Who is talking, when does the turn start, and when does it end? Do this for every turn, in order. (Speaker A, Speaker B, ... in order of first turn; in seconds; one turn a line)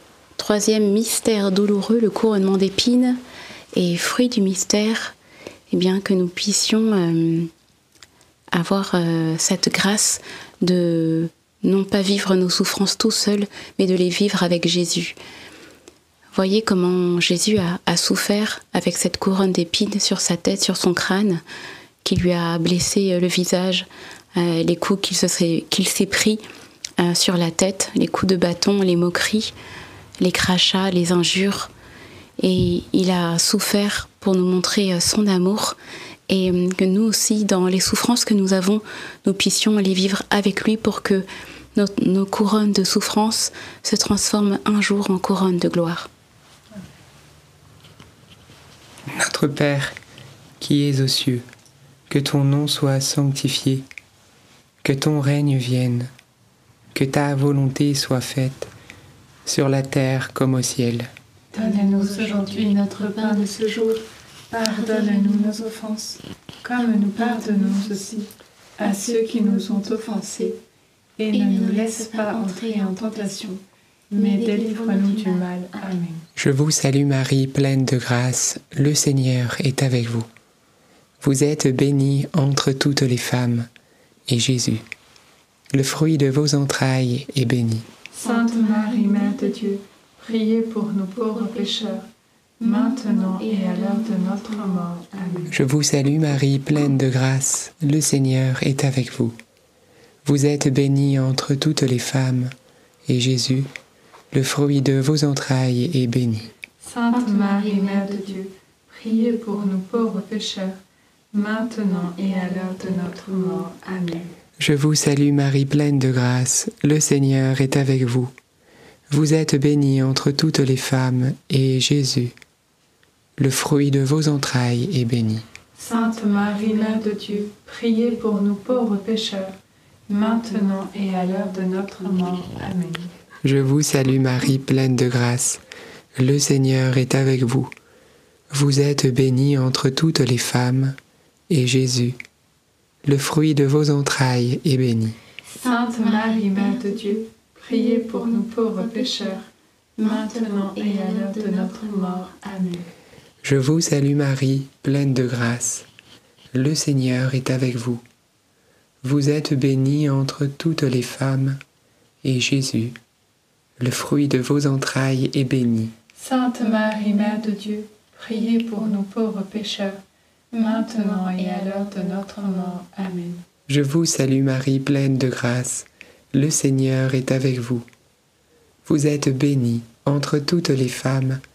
Speaker A: 0.4-3.2
Speaker A: 3.7-5.2
Speaker A: 5.7-7.5
Speaker A: 8.5-15.2
Speaker A: 16.3-21.4
Speaker A: 22.0-26.4
Speaker A: 27.0-29.5
Speaker A: 30.2-31.7
Speaker A: 32.4-35.8
Speaker A: 36.3-46.1
Speaker B: 49.1-50.0
Speaker B: 50.6-51.4
Speaker B: 52.1-53.9
Speaker B: 54.8-56.1
Speaker B: 56.9-58.7
Speaker B: 59.5-61.1
Speaker C: 61.5-70.6
Speaker A: 61.5-63.9
Speaker A: 64.6-65.7
Speaker A: 66.8-68.2
Speaker A: 68.8-70.5
Speaker C: 71.2-73.6
Speaker A: 71.3-73.6
Speaker C: 74.1-76.2
Speaker A: 74.2-75.9
Speaker B: 76.4-80.3
Speaker B: 81.2-83.7
Speaker B: 84.3-84.8
Speaker B: 85.7-87.9
Speaker C: 88.1-92.1
Speaker A: 88.2-89.8
Speaker A: 91.2-92.0
Speaker A: 92.6-95.5
Speaker C: 92.6-95.6
Speaker B: 95.5-99.4
Speaker B: 100.2-102.5
Speaker B: 103.1-103.7
Speaker B: 104.3-106.5
Speaker C: 106.8-110.8
Speaker A: 107.1-108.4
Speaker A: 109.1-109.4
Speaker C: 111.3-114.2
Speaker A: 111.9-114.1
Speaker B: 114.6-118.3
Speaker B: 119.1-122.3
Speaker B: 123.4-125.5
Speaker C: 125.8-129.6
Speaker C: 130.1-133.1
Speaker A: 132.0-132.3
Speaker B: 133.4-135.6
Speaker B: 136.2-137.7
Speaker B: 138.5-141.0
Speaker B: 141.5-142.2
Speaker B: 143.1-145.2
Speaker A: 145.5-152.8
Speaker C: 145.6-149.4
Speaker C: 150.0-152.7
Speaker B: 153.4-155.9
Speaker B: 156.5-158.0
Speaker B: 159.0-161.6
Speaker B: 162.2-163.0
Speaker B: 163.8-165.9
Speaker C: 166.2-170.0
Speaker A: 166.8-167.4
Speaker A: 170.5-172.8
Speaker C: 170.6-173.4
Speaker B: 173.7-177.9
Speaker B: 178.8-181.4